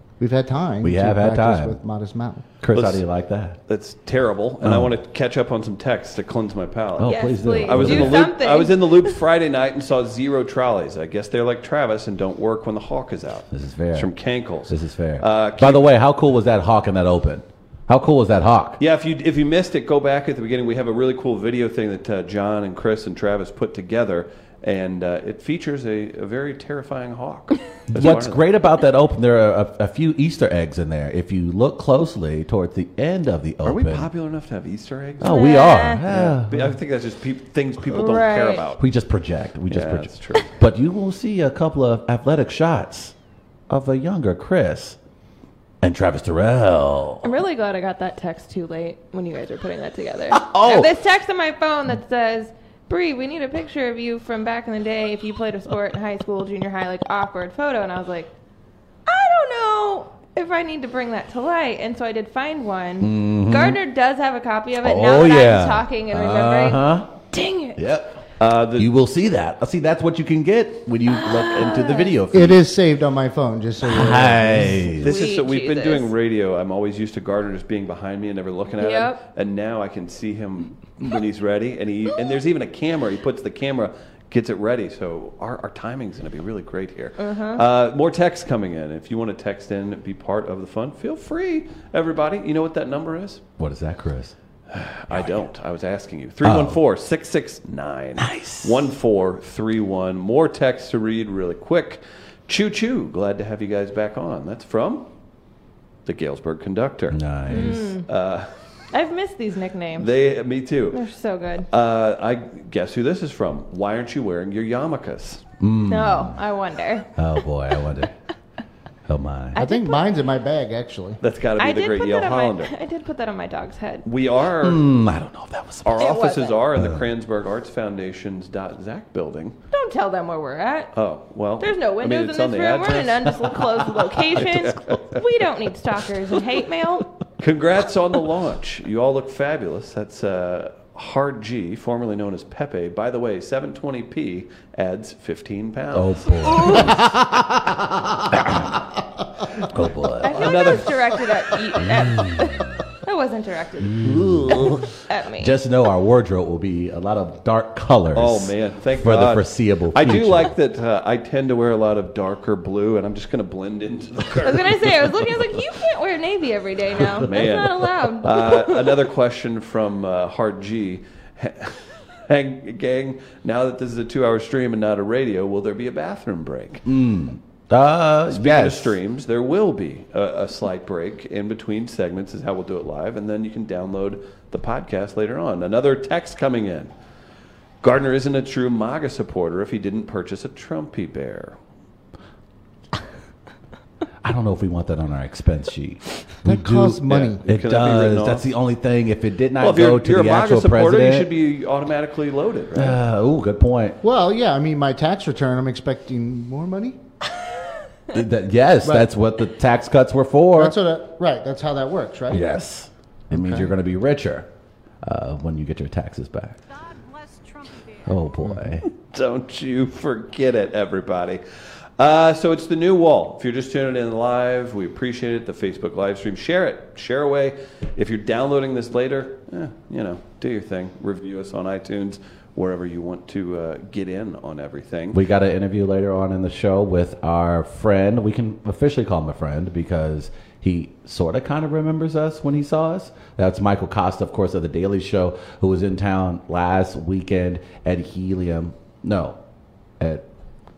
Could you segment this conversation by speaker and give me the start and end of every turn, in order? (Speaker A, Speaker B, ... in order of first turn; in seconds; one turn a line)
Speaker A: 0.2-2.4
Speaker B: 0.8-1.8
Speaker B: 2.6-3.6
Speaker C: 2.7-3.0
Speaker C: 3.7-15.9
Speaker B: 4.6-4.9
Speaker B: 7.0-8.3
Speaker D: 7.0-9.1
Speaker B: 13.5-14.1
Speaker B: 14.7-18.8
Speaker C: 18.8-28.4
Speaker B: 27.9-34.1
Speaker C: 33.6-38.8
Speaker B: 35.2-36.8
Speaker D: 35.2-36.0
Speaker D: 37.9-38.6
Speaker B: 38.8-43.1
Speaker C: 39.7-40.5
Speaker B: 43.7-45.0
Speaker B: 45.8-47.3
Speaker D: 47.2-58.3
Speaker B: 50.3-50.9
Speaker D: 59.1-67.9
Speaker B: 63.0-63.8
Speaker B: 64.8-67.1
Speaker B: 67.8-68.2
Speaker C: 68.4-68.9
Speaker B: 68.7-72.6
Speaker D: 71.2-72.2
Speaker A: 72.3-74.9
Speaker B: 73.8-75.2
Speaker C: 75.0-93.4
Speaker D: 75.0-76.1
Speaker D: 78.8-79.2
Speaker D: 87.2-87.6
Speaker B: 93.6-94.3
Speaker C: 94.7-105.1
Speaker B: 96.4-96.8
Speaker B: 98.2-98.8
Speaker C: 106.0-107.2
Speaker B: 107.1-107.9
Speaker D: 107.5-108.0
Speaker C: 108.0-108.5
Speaker D: 108.9-110.1
Speaker C: 110.0-111.0
Speaker D: 110.9-111.7
Speaker C: 111.7-115.4
Speaker B: 115.6-116.4
Speaker D: 115.8-117.2
Speaker B: 117.2-118.1
Speaker B: 119.1-119.6
Speaker D: 119.5-120.0
Speaker A: 119.5-121.2
Speaker C: 121.2-122.7
Speaker D: 121.6-124.0
Speaker C: 124.0-124.8
Speaker B: 124.6-126.1
Speaker C: 125.8-129.6
Speaker D: 126.0-126.7
Speaker B: 126.8-127.1
Speaker D: 129.7-130.9
Speaker C: 130.9-133.5
Speaker D: 131.6-137.1
Speaker C: 134.3-135.2
Speaker C: 137.4-147.0
Speaker B: 145.9-148.8
Speaker B: 149.5-150.8
Speaker D: 150.2-155.6
Speaker C: 150.2-151.0
Speaker B: 151.9-152.4
Speaker B: 153.9-154.9
Speaker C: 154.0-154.8
Speaker B: 155.4-160.5
Speaker C: 158.1-165.1
Speaker D: 164.4-169.0
Speaker C: 167.2-176.8
Speaker B: 176.8-178.9
Speaker C: 178.3-186.9
Speaker C: 187.8-191.5
Speaker B: 194.2-201.3
Speaker A: 196.4-197.4
Speaker C: 197.1-198.5
Speaker C: 199.6-203.0
Speaker B: 202.7-204.0
Speaker A: 204.0-207.0
Speaker B: 208.1-210.8
Speaker A: 208.8-209.1
Speaker A: 210.6-212.5
Speaker B: 212.3-214.5
Speaker A: 213.3-213.7
Speaker B: 215.0-216.6
Speaker B: 218.0-218.8
Speaker C: 218.9-221.4
Speaker C: 222.0-235.2
Speaker B: 235.1-249.4
Speaker B: 250.0-250.3